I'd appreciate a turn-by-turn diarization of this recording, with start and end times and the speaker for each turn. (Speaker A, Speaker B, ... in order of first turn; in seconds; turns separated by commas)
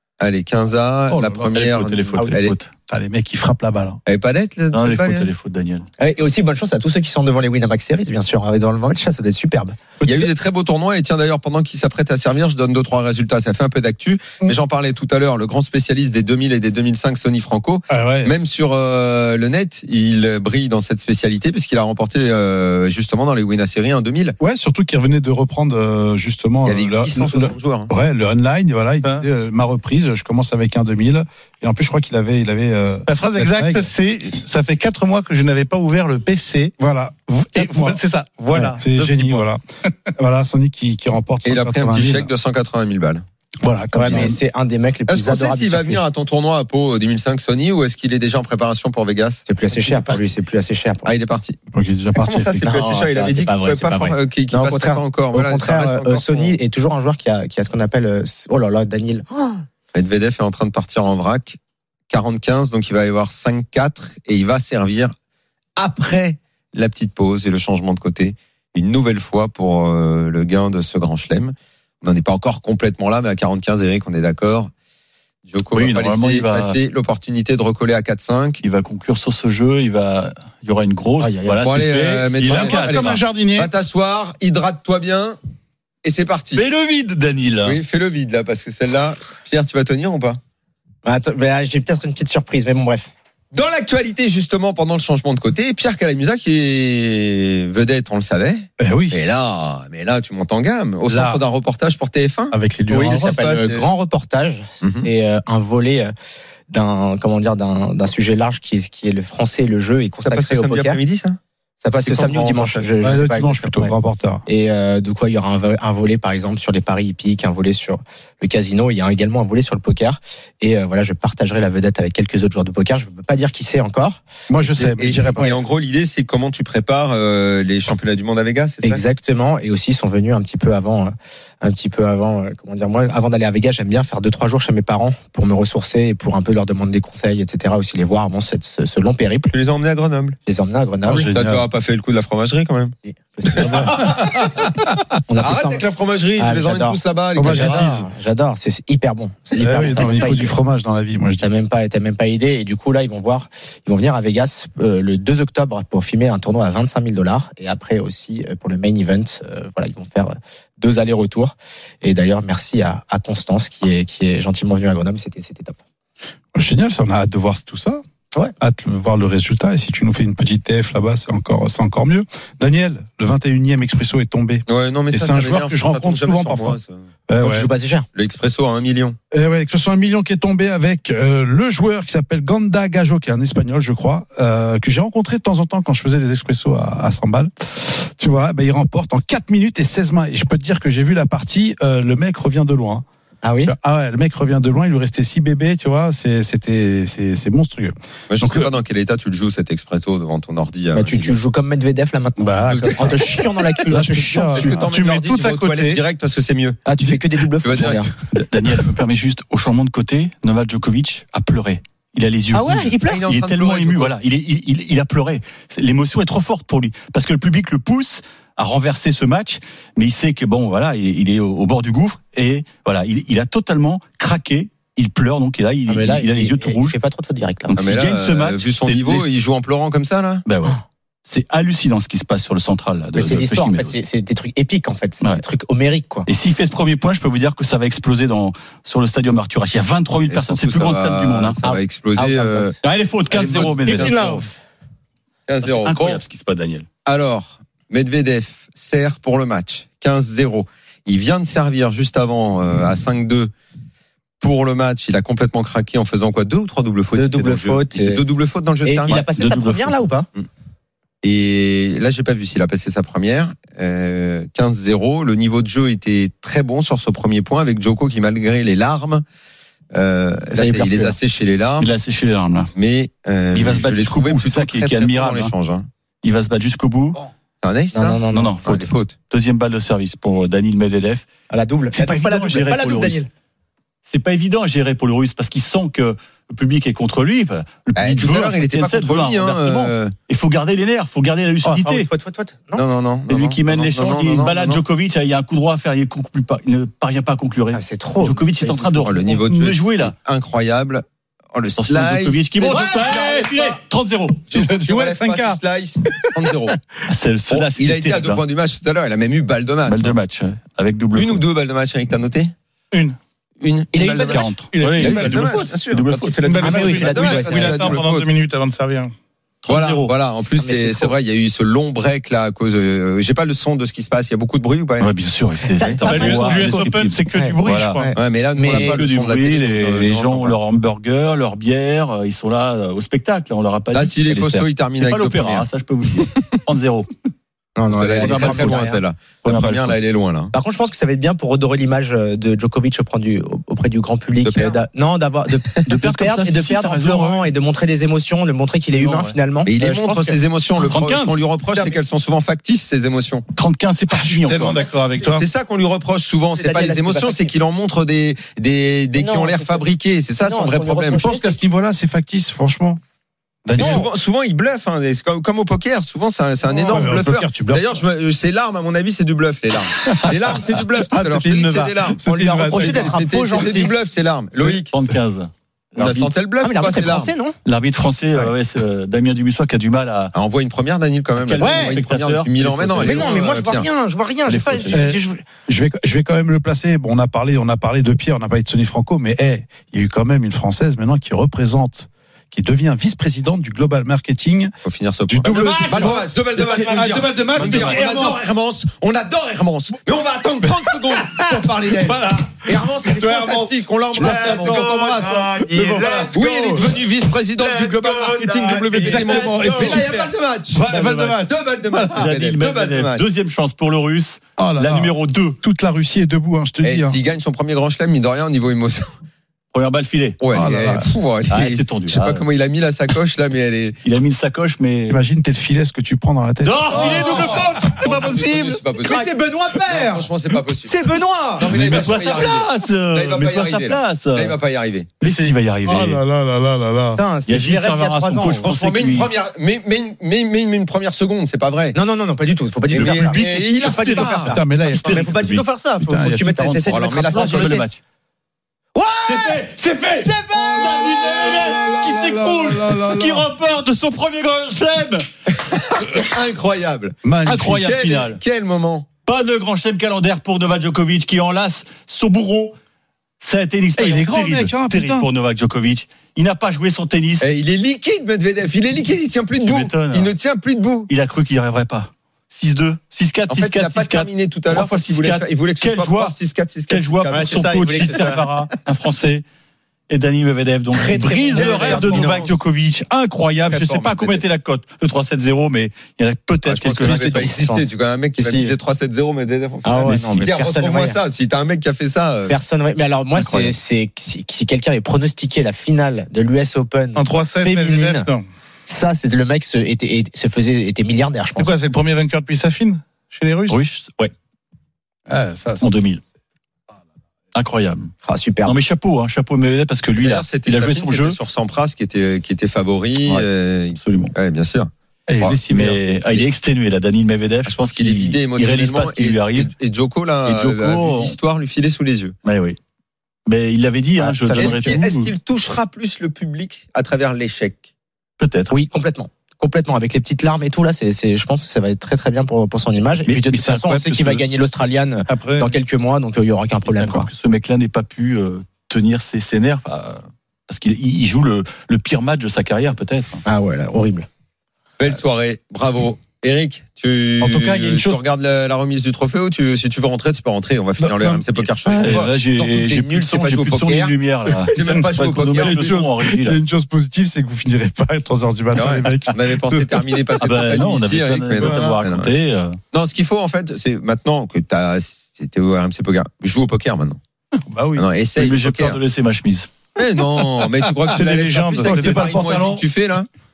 Speaker A: 0.2-2.5, Speaker B: 1.1-1.5, Speaker C: 1.5-2.7, Speaker B: 2.9-4.0, Speaker A: 4.0-5.3, Speaker C: 4.7-5.8, Speaker D: 6.0-9.8, Speaker A: 10.0-24.4, Speaker B: 17.9-18.3, Speaker B: 24.4-33.9, Speaker A: 26.6-27.9, Speaker E: 33.1-36.7, Speaker B: 36.8-38.0, Speaker E: 37.5-39.5, Speaker B: 38.5-39.6, Speaker B: 40.2-42.3, Speaker A: 41.4-43.2, Speaker B: 43.6-44.4, Speaker D: 43.9-46.0, Speaker A: 45.1-49.5, Speaker D: 49.5-51.1, Speaker A: 51.0-51.6, Speaker B: 51.7-52.7, Speaker A: 52.1-56.6, Speaker D: 52.6-59.6, Speaker A: 59.9-61.6, Speaker A: 62.1-65.1, Speaker A: 65.8-74.7, Speaker A: 75.5-78.6, Speaker C: 75.7-76.8, Speaker C: 78.6-83.2, Speaker D: 81.2-81.8, Speaker A: 81.6-85.4, Speaker E: 82.4-83.7, Speaker A: 86.0-86.7, Speaker C: 86.5-87.8, Speaker A: 87.6-90.4, Speaker D: 91.0-93.1, Speaker A: 93.5-102.5, Speaker B: 98.8-99.2, Speaker B: 101.0-101.4, Speaker B: 102.5-103.5, Speaker D: 102.9-106.1, Speaker A: 103.2-103.8, Speaker A: 104.8-105.1, Speaker D: 106.7-111.0, Speaker A: 110.2-111.4, Speaker D: 111.8-113.9, Speaker A: 112.0-112.9, Speaker B: 113.0-114.4, Speaker D: 114.5-124.2, Speaker B: 124.5-125.6, Speaker A: 124.8-129.0, Speaker D: 128.8-139.5, Speaker A: 139.5-140.3, Speaker D: 140.4-141.3, Speaker B: 141.0-141.6, Speaker A: 141.3-142.9, Speaker D: 143.0-144.4, Speaker A: 143.5-144.6, Speaker D: 145.3-145.8, Speaker A: 145.4-147.9, Speaker D: 146.4-150.6, Speaker B: 147.3-148.1, Speaker B: 149.6-151.4, Speaker D: 151.4-165.8, Speaker B: 166.5-168.0, Speaker B: 168.6-177.7, Speaker A: 174.7-177.1, Speaker D: 177.4-178.1, Speaker A: 178.1-179.2, Speaker B: 179.3-193.0, Speaker D: 193.4-193.7, Speaker B: 193.6-198.7, Speaker A: 198.3-201.4, Speaker D: 200.9-204.7, Speaker B: 202.4-203.3, Speaker A: 202.8-203.2, Speaker B: 203.9-205.0, Speaker E: 204.4-206.0, Speaker A: 204.5-206.8, Speaker D: 206.8-208.1, Speaker A: 207.6-208.1, Speaker C: 208.3-227.0, Speaker D: 212.5-213.2, Speaker A: 213.1-214.1, Speaker D: 225.9-227.9, Speaker C: 227.7-229.3, Speaker A: 227.8-230.4, Speaker C: 230.4-234.0, Speaker D: 233.1-236.3, Speaker C: 236.3-241.6, Speaker A: 240.3-242.8, Speaker D: 241.6-242.8, Speaker C: 242.8-244.5, Speaker A: 243.3-244.4, Speaker D: 243.4-244.5, Speaker A: 245.5-246.2, Speaker C: 245.6-246.8, Speaker A: 247.1-253.5, Speaker A: 254.4-259.2, Speaker D: 257.1-258.2, Speaker D: 258.8-260.3, Speaker C: 259.1-260.0, Speaker A: 261.2-269.2, Speaker A: 269.9-271.9, Speaker D: 270.5-271.1, Speaker C: 271.8-272.7, Speaker A: 272.8-275.9, Speaker C: 273.5-275.5, Speaker C: 276.2-277.2, Speaker A: 277.6-279.1, Speaker D: 277.9-278.6, Speaker C: 278.3-281.2, Speaker D: 281.5-283.3, Speaker C: 281.9-283.2, Speaker C: 284.1-292.1, Speaker A: 287.9-290.1, Speaker D: 291.6-292.8, Speaker A: 292.7-294.8, Speaker C: 293.3-300.1, Speaker D: 297.7-299.2, Speaker A: 299.0-303.3, Speaker C: 301.8-304.5, Speaker D: 302.6-303.5, Speaker A: 304.5-306.8, Speaker E: 304.7-305.6, Speaker C: 307.1-308.4, Speaker A: 307.5-310.1, Speaker C: 309.8-311.4, Speaker A: 311.1-312.5, Speaker E: 312.9-313.2, Speaker A: 313.6-318.3, Speaker D: 313.9-314.6, Speaker C: 314.1-317.1, Speaker E: 314.7-315.6, Speaker E: 316.4-319.1, Speaker D: 316.6-318.0, Speaker C: 319.6-320.1, Speaker A: 319.7-325.1, Speaker D: 320.6-321.1, Speaker C: 325.0-328.0, Speaker D: 325.8-329.0, Speaker E: 326.0-328.1, Speaker A: 328.1-330.6, Speaker C: 328.6-337.1, Speaker A: 333.9-335.7, Speaker D: 337.8-339.0, Speaker A: 337.9-340.5, Speaker C: 338.2-340.0, Speaker D: 340.5-350.4, Speaker A: 344.4-344.8, Speaker C: 345.9-347.5, Speaker C: 348.9-349.3, Speaker A: 349.6-353.4, Speaker C: 350.8-351.4, Speaker C: 353.6-354.8, Speaker E: 354.1-355.4, Speaker A: 355.2-361.2, Speaker D: 356.6-357.5, Speaker D: 359.2-359.9, Speaker D: 360.4-361.6, Speaker B: 361.1-363.0, Speaker B: 363.6-364.1, Speaker A: 363.8-374.9, Speaker D: 363.8-364.1, Speaker D: 366.7-367.1, Speaker B: 366.8-368.0, Speaker B: 370.2-373.8, Speaker D: 372.7-373.9, Speaker C: 374.9-376.3, Speaker A: 376.0-377.3, Speaker D: 376.6-377.6, Speaker C: 377.6-380.3, Speaker A: 380.3-383.9, Speaker C: 381.4-383.8, Speaker D: 381.6-382.0, Speaker D: 383.0-385.4, Speaker C: 384.4-385.1, Speaker B: 384.9-394.7, Speaker A: 394.8-404.9, Speaker B: 395.3-398.4, Speaker E: 396.9-398.2, Speaker C: 397.6-398.0, Speaker E: 403.2-406.3, Speaker B: 403.3-403.6, Speaker B: 404.2-406.8, Speaker D: 405.0-405.6, Speaker A: 406.3-413.2, Speaker C: 407.6-409.7, Speaker D: 408.2-408.6, Speaker B: 409.0-410.1, Speaker E: 409.4-410.0, Speaker D: 409.8-410.1, Speaker E: 410.8-411.5, Speaker B: 410.9-411.4, Speaker C: 412.1-415.6, Speaker B: 414.6-417.2, Speaker A: 416.8-419.1, Speaker C: 419.7-420.7, Speaker A: 420.4-424.0, Speaker B: 420.5-421.1, Speaker C: 421.5-422.4, Speaker C: 424.0-425.2, Speaker B: 425.1-427.7, Speaker C: 426.6-428.8, Speaker E: 427.0-427.4, Speaker D: 427.1-430.3, Speaker A: 427.3-429.3, Speaker A: 429.8-435.2, Speaker D: 430.8-432.1, Speaker C: 431.6-434.6, Speaker C: 435.2-436.2, Speaker B: 435.2-437.2, Speaker D: 437.1-438.7, Speaker C: 437.4-439.3, Speaker A: 438.6-442.0, Speaker D: 441.9-447.8, Speaker A: 442.9-444.6, Speaker C: 442.9-445.6, Speaker E: 444.5-445.2, Speaker B: 446.0-446.6, Speaker C: 446.5-448.0, Speaker A: 446.9-447.8, Speaker D: 448.9-451.6, Speaker C: 449.2-455.2, Speaker E: 452.0-453.4, Speaker A: 455.6-459.1, Speaker B: 457.2-457.9, Speaker C: 457.4-458.4, Speaker C: 459.2-462.7, Speaker C: 463.4-467.4, Speaker B: 463.9-465.3, Speaker A: 467.4-471.1, Speaker C: 469.6-470.3, Speaker C: 471.1-476.3, Speaker A: 473.5-478.3, Speaker C: 476.9-479.4, Speaker D: 477.3-478.5, Speaker C: 480.1-487.5, Speaker D: 480.9-482.5, Speaker A: 481.5-482.6, Speaker A: 483.7-484.4, Speaker A: 486.6-492.6, Speaker D: 487.0-488.7, Speaker D: 489.8-491.2, Speaker C: 490.0-490.5, Speaker D: 492.5-498.3, Speaker C: 493.3-493.7, Speaker E: 497.1-498.4, Speaker D: 498.9-501.7, Speaker E: 501.6-503.8, Speaker C: 503.7-504.3, Speaker E: 505.3-505.9, Speaker C: 505.8-506.2, Speaker C: 507.5-508.1, Speaker D: 508.2-508.8, Speaker C: 508.6-511.4, Speaker A: 510.2-515.6, Speaker C: 514.0-514.3, Speaker B: 515.3-516.0, Speaker C: 515.7-519.7, Speaker A: 517.6-522.3, Speaker C: 520.5-521.4, Speaker C: 522.4-522.8, Speaker C: 523.5-525.3, Speaker D: 524.2-525.0, Speaker A: 524.5-527.8, Speaker C: 528.4-528.7, Speaker D: 528.7-537.3, Speaker C: 533.2-534.5, Speaker E: 535.3-535.7, Speaker C: 536.9-543.4, Speaker D: 543.4-544.3, Speaker A: 545.0-554.1, Speaker B: 547.4-548.2, Speaker B: 551.0-552.1, Speaker C: 551.9-556.6, Speaker A: 554.7-556.0, Speaker B: 555.5-560.1, Speaker A: 558.7-562.3, Speaker C: 560.4-562.8, Speaker B: 561.6-562.0, Speaker A: 562.9-567.2, Speaker E: 567.7-568.0, Speaker A: 568.0-569.0, Speaker C: 568.4-569.7, Speaker A: 570.0-573.3, Speaker E: 571.1-572.8, Speaker B: 571.8-572.8